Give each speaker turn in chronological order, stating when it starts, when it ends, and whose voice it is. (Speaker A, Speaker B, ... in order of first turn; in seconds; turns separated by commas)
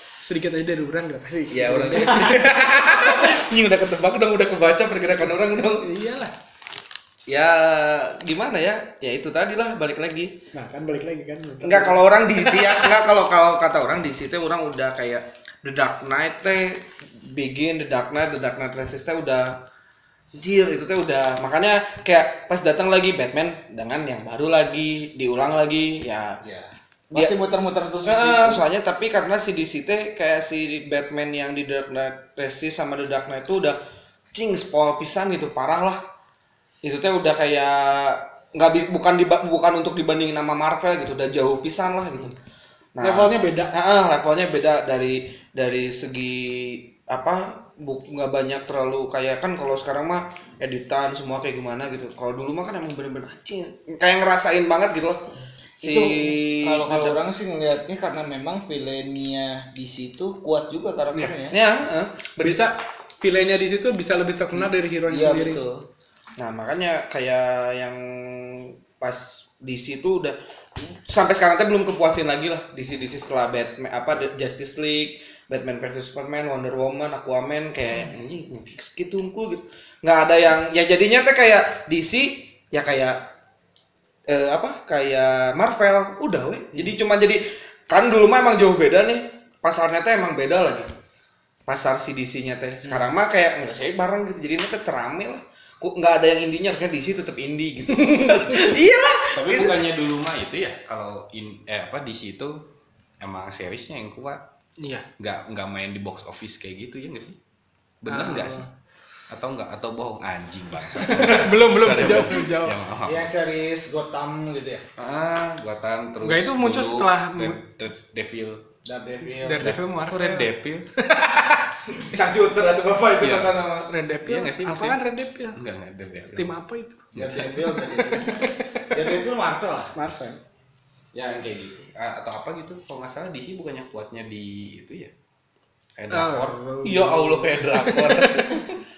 Speaker A: 0.2-2.5, Speaker B: 1.5-5.9, Speaker A: 5.8-6.3, Speaker B: 7.3-10.4, Speaker A: 10.5-12.9, Speaker B: 11.6-19.6, Speaker B: 20.4-26.4, Speaker C: 26.4-28.6, Speaker B: 28.0-33.8, Speaker B: 34.3-36.0, Speaker B: 36.8-42.4, Speaker B: 43.0-57.2, Speaker A: 43.0-43.7, Speaker C: 55.8-61.6, Speaker B: 61.5-62.7, Speaker A: 62.4-65.6, Speaker C: 64.5-65.8, Speaker B: 66.4-83.2, Speaker B: 84.3-90.9, Speaker B: 91.7-99.8, Speaker A: 98.0-98.7, Speaker D: 99.3-102.6, Speaker D: 103.2-104.4, Speaker A: 104.8-105.1, Speaker D: 105.2-107.4, Speaker D: 108.0-108.7, Speaker A: 108.1-108.7, Speaker D: 109.3-113.3, Speaker A: 110.9-112.8, Speaker C: 113.0-114.9, Speaker D: 115.0-118.7, Speaker A: 116.2-117.6, Speaker C: 118.8-119.8, Speaker A: 119.4-121.7, Speaker D: 119.6-120.9, Speaker C: 122.1-123.9, Speaker B: 122.2-123.6, Speaker D: 123.2-123.7, Speaker A: 123.9-125.6, Speaker D: 124.2-126.6, Speaker A: 126.3-129.0, Speaker D: 127.1-127.7, Speaker C: 127.2-129.9, Speaker A: 129.9-130.4, Speaker D: 131.1-135.1, Speaker D: 136.0-138.8, Speaker A: 136.1-138.6